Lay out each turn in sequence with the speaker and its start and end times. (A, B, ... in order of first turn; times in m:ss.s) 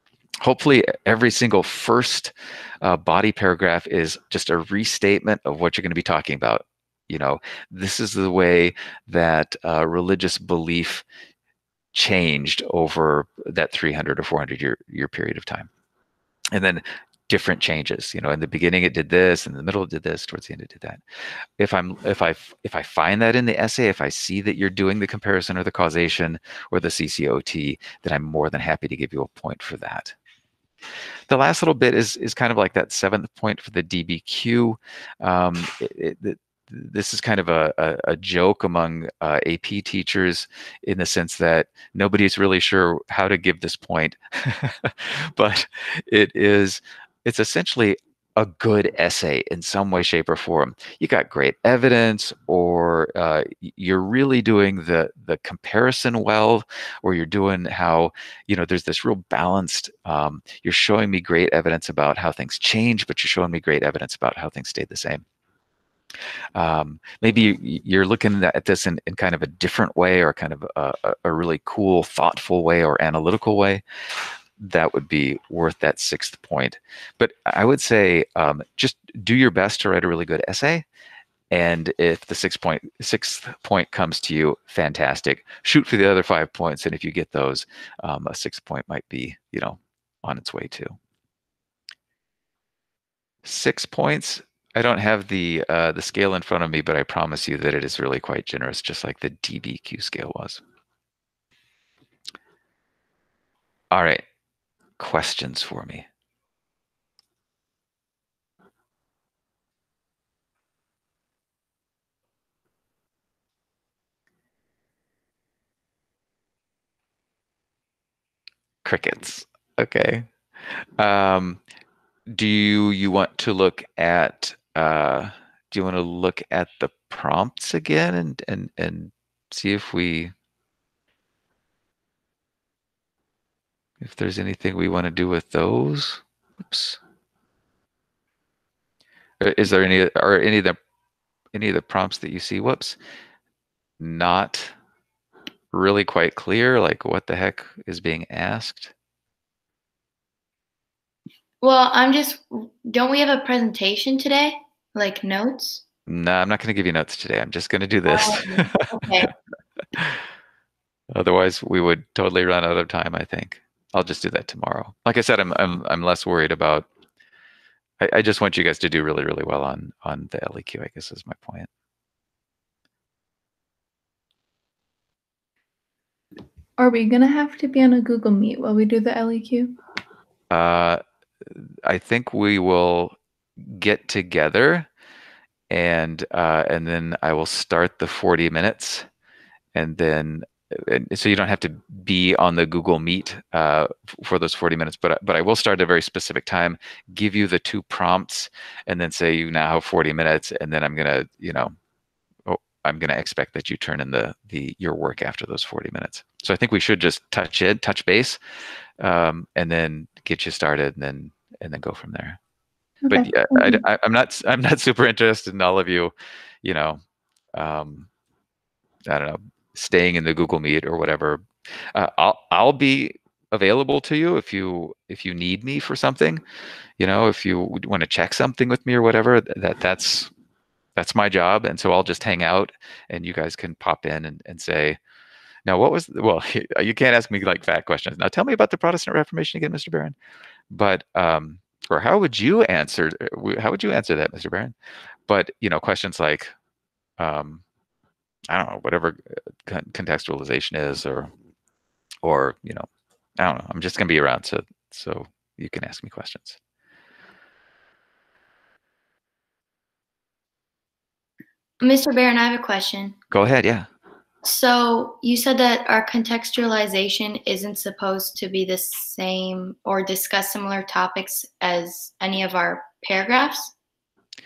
0:00.4-0:11.0 A
0:11.9-0:15.7 A
0:16.5-0:21.0 A
0:21.6-0:30.1 A
0:31.3-1:05.2 A
1:06.6-1:13.8 A
1:14.6-1:20.9 A
1:21.5-1:31.0 A
1:33.4-1:40.6 A
1:43.9-1:44.2 A
1:45.0-1:46.1 A
1:58.8-2:00.3 A
2:01.0-2:01.6 A
2:02.3-2:10.3 A
2:14.0-2:17.0 A
2:19.4-2:20.8 A
2:21.5-2:23.0 A
2:24.0-2:24.7 A
2:25.7-2:28.9 A
2:31.6-2:35.8 B
2:36.1-2:38.9 A
2:38.1-2:39.3 B
2:40.0-2:40.2 A
2:41.1-2:46.9 A
2:48.0-2:51.7 A
2:56.8-2:59.8 C
3:00.5-3:01.0 A
3:01.5-3:04.9 A
3:05.7-3:09.1 A
3:09.8-3:21.7 A
3:22.5-3:28.4 A
3:29.0-3:32.4 A
3:33.0-3:33.8 C
3:33.1-3:37.0 A
3:37.5-3:38.1 A
3:39.1-3:46.4 A
3:47.0-3:50.3 A
3:51.0-3:55.0 A
3:55.7-4:00.2 A
4:00.7-4:04.8 A
4:05.3-4:06.5 A
4:07.2-4:07.6 A
4:08.5-4:11.3 A
4:12.2-4:12.9 A
4:13.4-4:16.6 A
4:21.8-4:23.2 B
4:23.3-4:23.9 A
4:24.4-4:33.7 B